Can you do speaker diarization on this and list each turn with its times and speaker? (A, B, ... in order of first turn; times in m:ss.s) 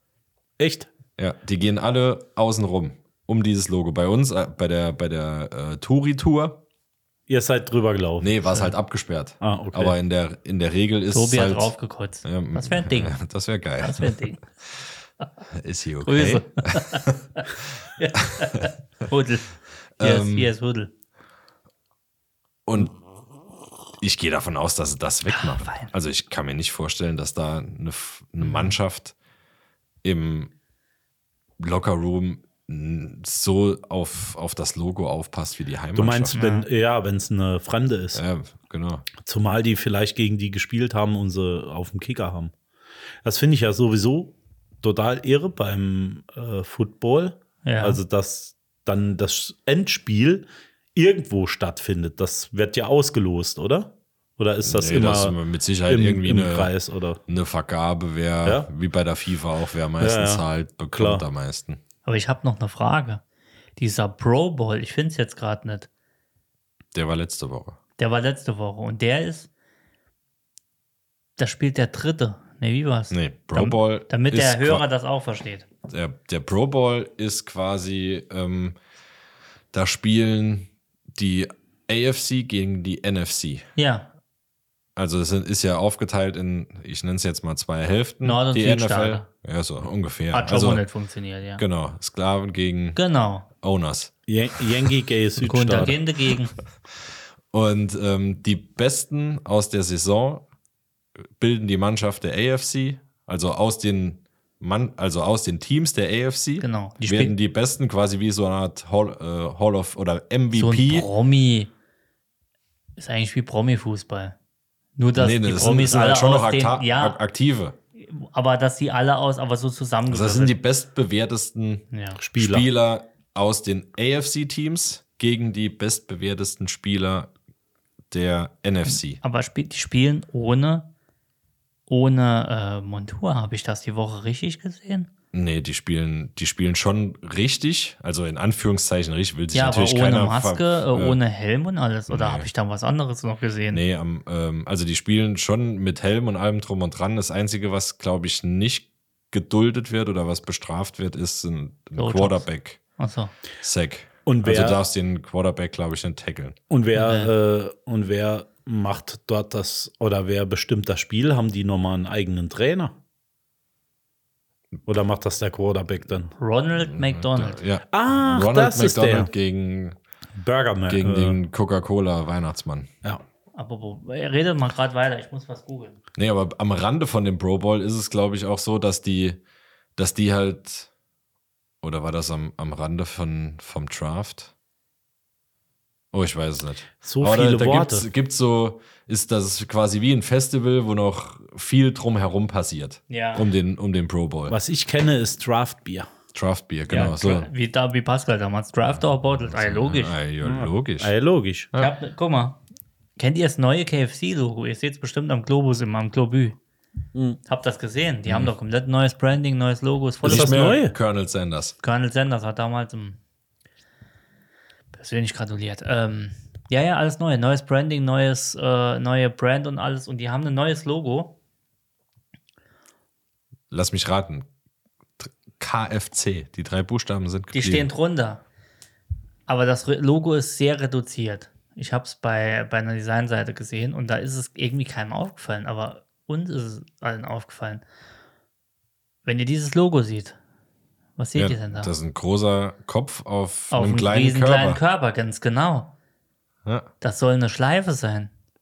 0:00.6-0:00.9 A
0:01.2-0:06.6 B
0:07.3-0:08.3 A
0:08.2-0:11.7 B
0:09.4-0:09.9 A
0:11.1-0:13.1 C
0:12.2-0:14.3 B
0:13.8-0:14.4 C
0:15.5-0:17.3 B
0:16.0-0:17.4 C
0:18.0-0:20.9 C
0:18.2-0:18.7 B
0:20.0-0:20.5 B
0:22.6-0:22.9 B
0:24.0-0:29.1 B
0:25.3-0:25.9 C
0:28.4-0:28.8 C
0:30.0-0:30.5 B
0:31.6-0:36.3 B
0:35.9-0:38.2 A
0:36.3-0:36.7 C
0:38.1-0:39.1 B
0:39.2-0:42.5 A
0:43.2-0:57.2 A
0:47.6-0:48.0 C
0:54.6-0:56.7 B
0:57.2-1:01.8 B
0:58.4-0:58.7 A
1:00.0-1:01.2 A
1:02.0-1:03.2 C
1:03.8-1:05.9 C
1:06.9-1:07.8 B
1:08.0-1:09.5 C
1:11.4-1:15.6 C
1:13.1-1:14.8 B
1:15.9-1:18.8 B
1:19.7-1:23.7 B
1:23.8-1:24.1 C
1:25.0-1:30.8 B
1:28.2-1:29.3 C
1:30.3-1:31.6 C
1:31.6-1:33.0 B
1:33.0-1:33.5 C
1:33.6-1:34.1 B
1:34.3-1:36.0 A
1:35.4-1:36.6 C
1:37.5-1:40.4 B
1:41.4-1:51.1 B
1:46.6-1:47.3 C
1:50.5-1:51.7 C
1:53.0-1:54.3 C
1:55.0-1:57.2 C
1:55.2-1:57.8 B
1:58.0-2:00.5 C
2:00.1-2:01.8 B
2:01.9-2:02.2 C
2:02.2-2:02.7 A
2:02.4-2:07.3 B
2:08.1-2:09.2 B
2:08.9-2:10.9 C
2:11.9-2:15.1 C
2:15.3-2:21.2 B
2:19.5-2:23.8 C
2:22.1-2:22.5 B
2:23.7-2:32.8 B
2:32.0-2:33.3 C
2:33.6-2:36.6 B
2:34.2-2:34.8 A
2:36.7-2:42.9 A
2:36.9-2:37.3 C
2:44.9-2:46.3 A
2:46.4-2:47.6 C
2:46.8-2:50.0 B
2:47.9-2:49.3 A
2:50.3-2:51.4 A
2:50.9-2:52.9 B
2:53.5-2:56.0 C
2:56.2-2:59.4 B
3:00.0-3:00.9 B
3:01.8-3:04.5 B
3:06.1-3:14.6 B
3:07.0-3:08.1 A
3:13.1-3:13.5 C
3:14.5-3:16.1 A
3:16.3-3:17.5 B
3:16.9-3:20.2 C
3:19.4-3:21.1 B
3:20.4-3:21.7 A
3:21.8-3:22.6 C
3:23.2-3:26.6 C
3:27.5-3:30.7 C
3:28.3-3:28.5 B
3:30.2-3:31.7 B
3:30.2-3:30.9 A
3:31.8-3:33.2 C
3:34.9-3:41.3 C
3:43.7-3:44.4 B
3:45.2-3:47.9 B
3:47.5-3:48.4 C
3:49.5-3:57.8 C
3:59.2-4:00.4 C
4:01.2-4:01.9 C
4:01.4-4:04.8 B
4:03.7-4:05.9 C
4:07.0-4:08.3 C